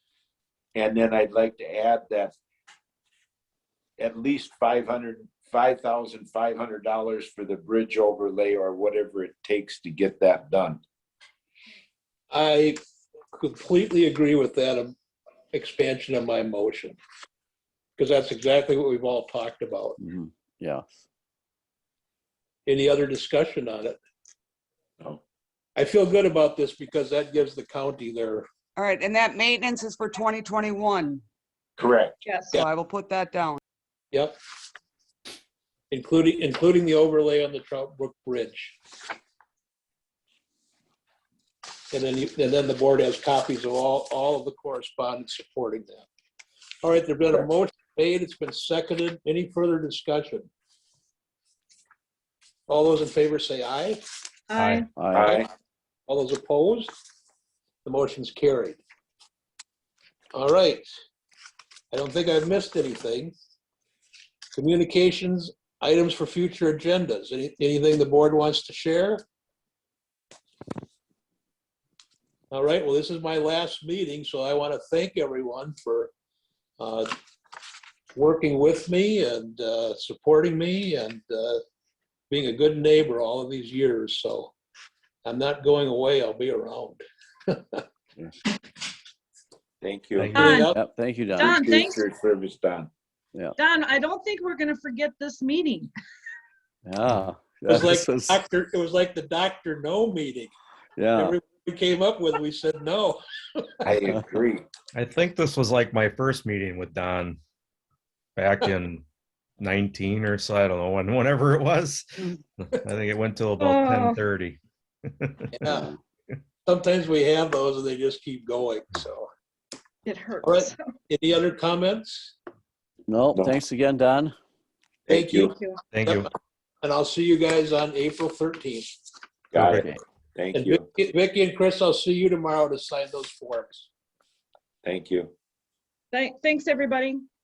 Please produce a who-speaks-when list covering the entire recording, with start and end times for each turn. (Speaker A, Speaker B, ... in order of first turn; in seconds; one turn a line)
Speaker A: 0.8-2.4
Speaker A: 4.0-10.8
Speaker B: 12.3-12.8
Speaker B: 13.3-14.9
Speaker B: 15.5-17.0
Speaker B: 18.0-20.0
Speaker C: 20.0-21.0
Speaker B: 22.7-24.0
Speaker B: 25.8-28.5
Speaker D: 28.8-31.2
Speaker A: 31.8-32.2
Speaker E: 32.2-32.6
Speaker D: 32.5-33.6
Speaker B: 34.1-34.4
Speaker B: 35.9-38.8
Speaker B: 41.9-46.1
Speaker B: 46.8-50.5
Speaker B: 52.7-54.0
Speaker E: 54.5-54.9
Speaker F: 54.5-54.9
Speaker C: 55.0-55.3
Speaker A: 55.1-55.5
Speaker B: 55.2-55.5
Speaker B: 56.1-56.9
Speaker B: 57.9-58.8
Speaker B: 60.3-60.9
Speaker B: 61.9-63.4
Speaker B: 64.5-69.2
Speaker B: 72.5-76.1
Speaker B: 76.8-77.1
Speaker B: 78.1-81.6
Speaker B: 82.3-84.5
Speaker B: 85.2-87.8
Speaker A: 89.8-90.6
Speaker F: 90.2-90.6
Speaker E: 90.3-90.7
Speaker B: 90.4-90.8
Speaker C: 90.7-91.6
Speaker E: 91.4-92.1
Speaker A: 91.4-92.9
Speaker E: 93.6-95.9
Speaker C: 96.9-98.4
Speaker B: 97.7-100.5
Speaker C: 101.0-101.4
Speaker B: 101.2-103.9
Speaker A: 103.8-104.7
Speaker F: 104.9-107.4
Speaker F: 108.4-109.0
Speaker F: 109.6-115.8
Speaker E: 113.6-114.2
Speaker B: 115.6-115.9
Speaker C: 115.7-115.9
Speaker B: 116.7-119.3
Speaker E: 120.1-120.8
Speaker B: 120.4-122.3
Speaker C: 123.1-124.3
Speaker A: 123.3-123.6
Speaker A: 125.1-125.5
Speaker B: 125.1-126.3
Speaker E: 125.5-125.8
Speaker F: 125.9-126.3
Speaker B: 126.8-128.9
Speaker A: 129.5-130.8
Speaker C: 129.6-130.0
Speaker B: 130.5-133.9
Speaker A: 134.8-135.3
Speaker E: 136.1-137.3